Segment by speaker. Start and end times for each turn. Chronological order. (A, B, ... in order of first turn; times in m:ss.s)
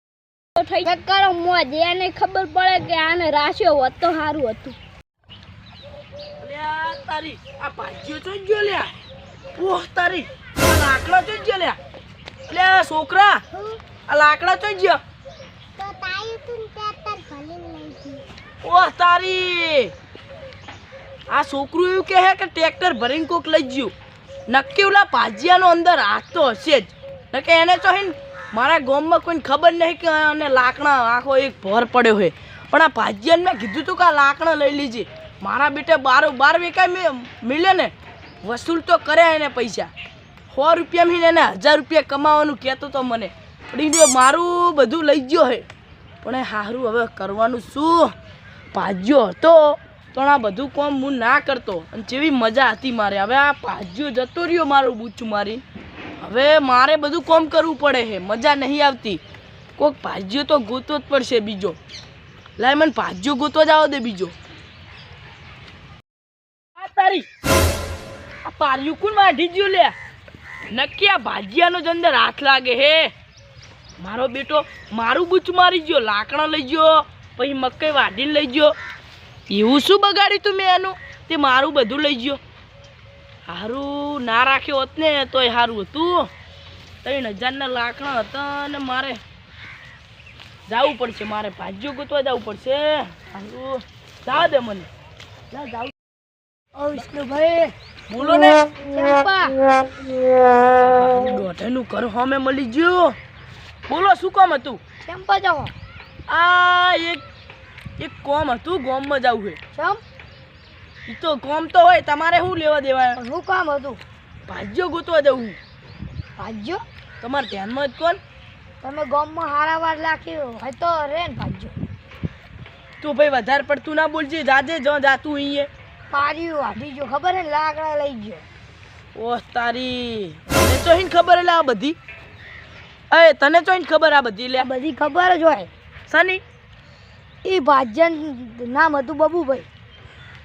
0:00.6-0:04.8 A
0:06.4-0:08.9 B
0:09.5-0:11.8 B
0:12.5-0:13.4 B
0:14.1-0:15.0 B
0:15.8-0:18.2 C
0:18.6-0:19.9 B
0:21.3-0:23.9 B
0:24.5-0:39.9 B
0:40.5-0:45.6 B
0:46.2-0:48.1 B
0:48.7-0:55.6 B
0:56.2-0:59.2 B
0:59.8-1:01.8 B
1:02.6-1:04.3 B
1:06.8-1:07.2 B
1:08.4-1:09.9 B
1:10.7-1:13.1 B
1:14.0-1:18.7 B
1:19.5-1:22.4 B
1:23.5-1:26.3 B
1:27.0-1:29.2 B
1:30.7-1:34.9 B
1:35.5-1:35.9 C
1:36.8-1:37.7 C
1:38.1-1:38.7 B
1:38.7-1:39.6 C
1:40.8-1:43.2 B
1:43.9-1:44.8 B
1:45.0-1:45.7 C
1:46.3-1:47.2 B
1:48.0-1:49.6 B
1:49.7-1:50.0 C
1:51.1-1:53.2 B
1:53.2-1:54.0 C
1:54.5-1:55.6 B
1:56.4-1:56.8 C
1:57.2-1:58.2 B
1:58.8-2:01.8 C
2:03.0-2:05.7 B
2:06.1-2:08.4 C
2:09.1-2:12.0 B
2:13.1-2:14.7 B
2:14.6-2:15.7 C
2:16.1-2:16.4 B
2:17.4-2:19.6 C